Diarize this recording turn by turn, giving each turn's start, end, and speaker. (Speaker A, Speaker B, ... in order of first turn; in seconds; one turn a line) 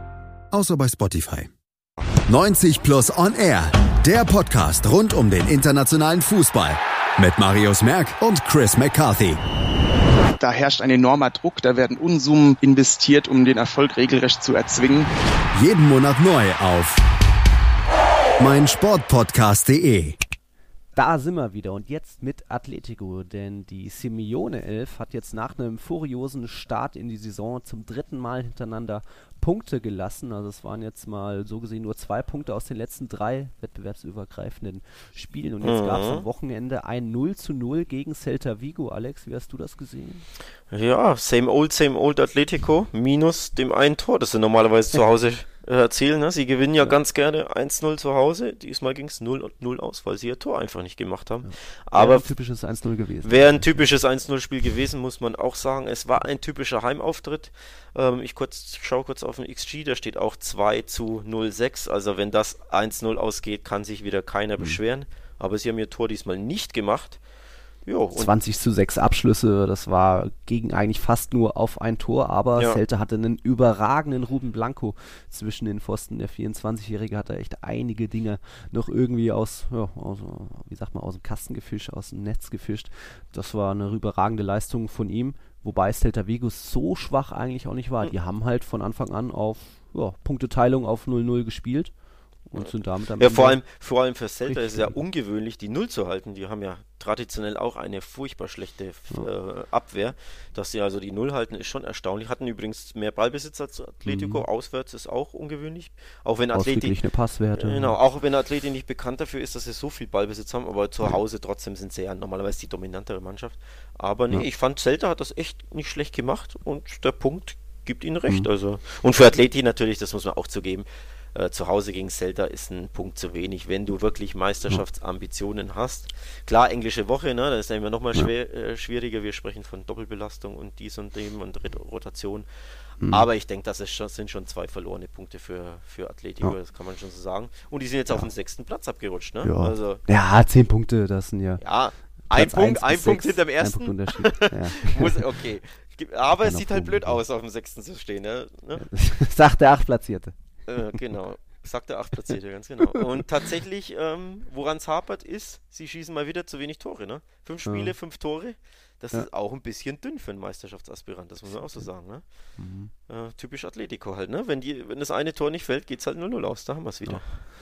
Speaker A: 0.5-1.5
Speaker A: 2.3-9.4
Speaker B: 10.4-15.1
Speaker A: 15.5-17.0
Speaker A: 18.4-20.2
Speaker C: 20.9-40.2
Speaker D: 35.6-36.2
Speaker D: 40.7-52.3
Speaker C: 51.4-53.8
Speaker D: 53.2-67.2
Speaker D: 67.8-68.3
Speaker C: 68.1-91.9
Speaker C: 92.5-93.6
Speaker D: 92.5-107.0
Speaker C: 94.5-95.0
Speaker C: 104.0-104.4
Speaker C: 106.5-108.0
Speaker D: 107.6-132.5
Speaker C: 133.0-133.3
Speaker D: 133.1-140.0
Speaker C: 139.4-141.6
Speaker D: 141.6-148.9
Speaker C: 142.3-145.3
Speaker C: 146.2-147.2
Speaker C: 148.8-150.3
Speaker D: 150.7-162.2
Speaker C: 152.9-153.2
Speaker C: 157.6-157.9
Speaker C: 162.6-162.9
Speaker D: 163.1-167.4
Speaker C: 167.1-167.4